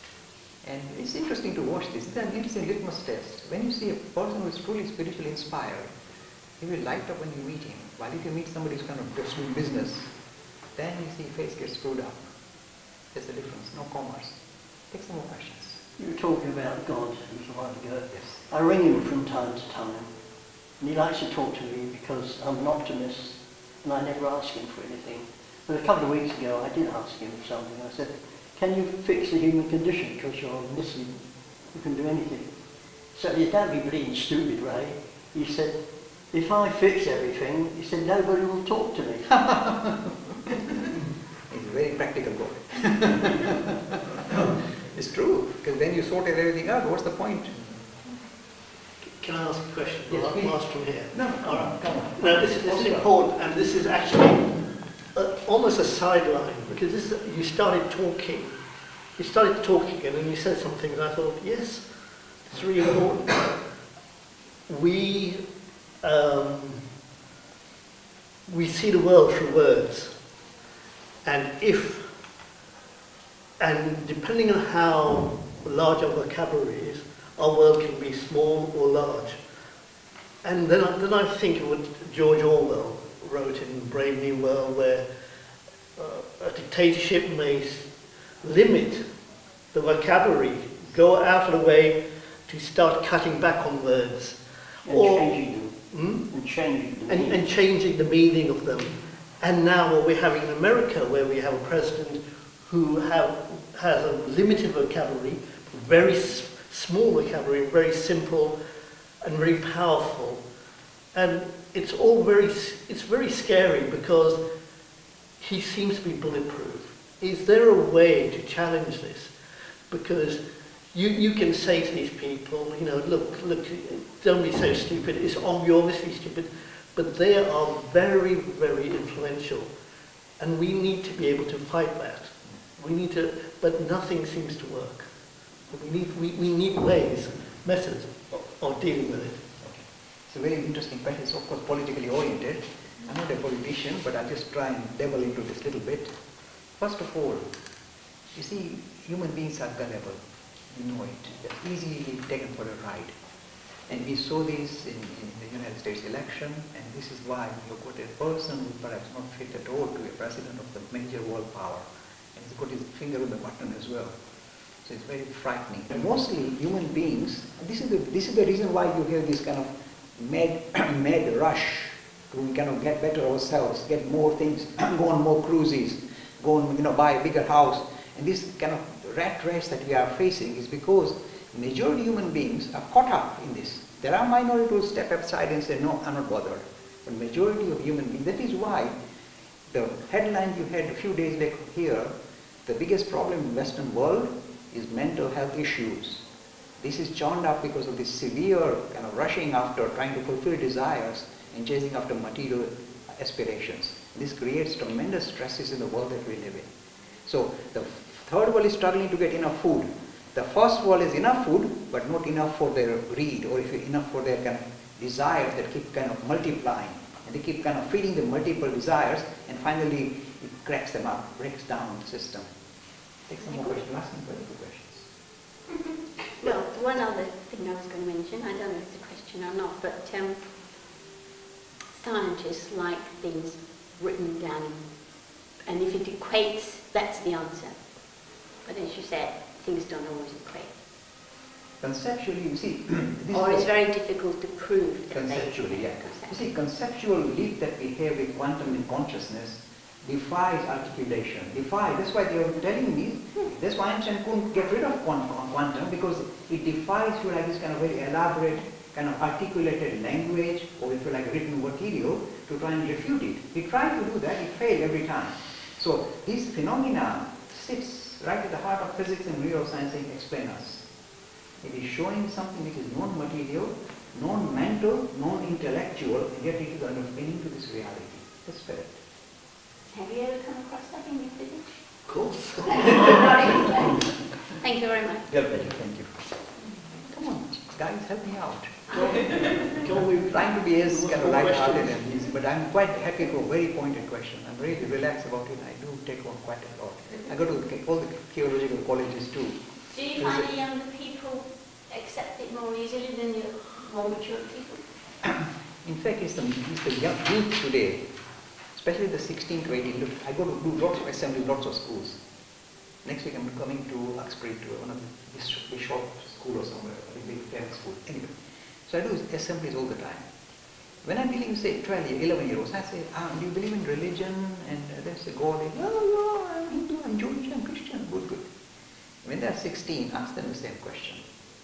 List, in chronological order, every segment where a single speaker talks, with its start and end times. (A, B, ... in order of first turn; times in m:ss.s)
0:00.6-0:05.9 A
0:06.6-0:10.1 A
0:10.8-0:12.2 A
0:13.1-0:14.4 A
0:14.9-0:15.8 A
0:16.0-0:20.1 B
0:18.1-0:18.4 A
0:20.8-0:32.5 B
0:33.1-0:39.3 B
0:39.3-0:40.8 A
0:41.5-0:47.6 A
0:49.0-0:58.5 C
0:50.1-0:53.1 A
0:59.2-1:03.7 C
1:04.7-1:05.4 C
1:06.0-1:06.9 C
1:08.5-1:10.1 C
1:11.2-1:12.1 C
1:13.6-1:19.4 C
1:20.4-1:25.1 C
1:26.0-1:29.1 C
1:29.7-1:35.4 C
1:34.8-1:37.4 B
1:35.9-1:36.3 C
1:37.1-1:48.6 C
1:49.2-1:50.4 C
1:51.1-1:54.4 C
1:55.4-1:59.3 C
1:59.9-2:00.4 C
2:00.9-2:09.7 C
2:10.4-2:15.1 C
2:15.7-2:19.4 C
2:19.6-2:26.1 A
2:26.8-2:27.5 A
2:28.3-2:33.1 A
2:33.9-2:44.2 A
2:44.8-3:08.9 A
3:09.7-3:12.1 A
3:12.6-3:16.2 A
3:16.8-3:26.7 A
3:27.2-3:42.5 A
3:43.3-3:45.1 A
3:43.4-3:43.7 D
3:46.4-3:50.4 D
3:51.9-3:54.8 D
3:55.6-3:57.8 D
3:58.6-4:00.8 D
4:01.8-4:03.7 A
4:03.3-4:06.3 D
4:05.1-4:30.8 A
4:31.6-4:39.0 A
4:39.9-4:41.8 D
4:42.1-4:42.8 C
4:42.6-4:45.2 D
4:45.3-4:46.2 A
4:47.0-4:59.6 A
4:49.1-4:49.6 D
4:49.7-4:52.0 C
4:59.9-5:04.8 D
5:00.2-5:00.5 A
5:05.2-5:08.0 A
5:08.7-5:12.2 A
5:13.0-5:18.3 A
5:18.9-5:20.3 A
5:21.0-5:28.5 A
5:29.2-5:31.2 A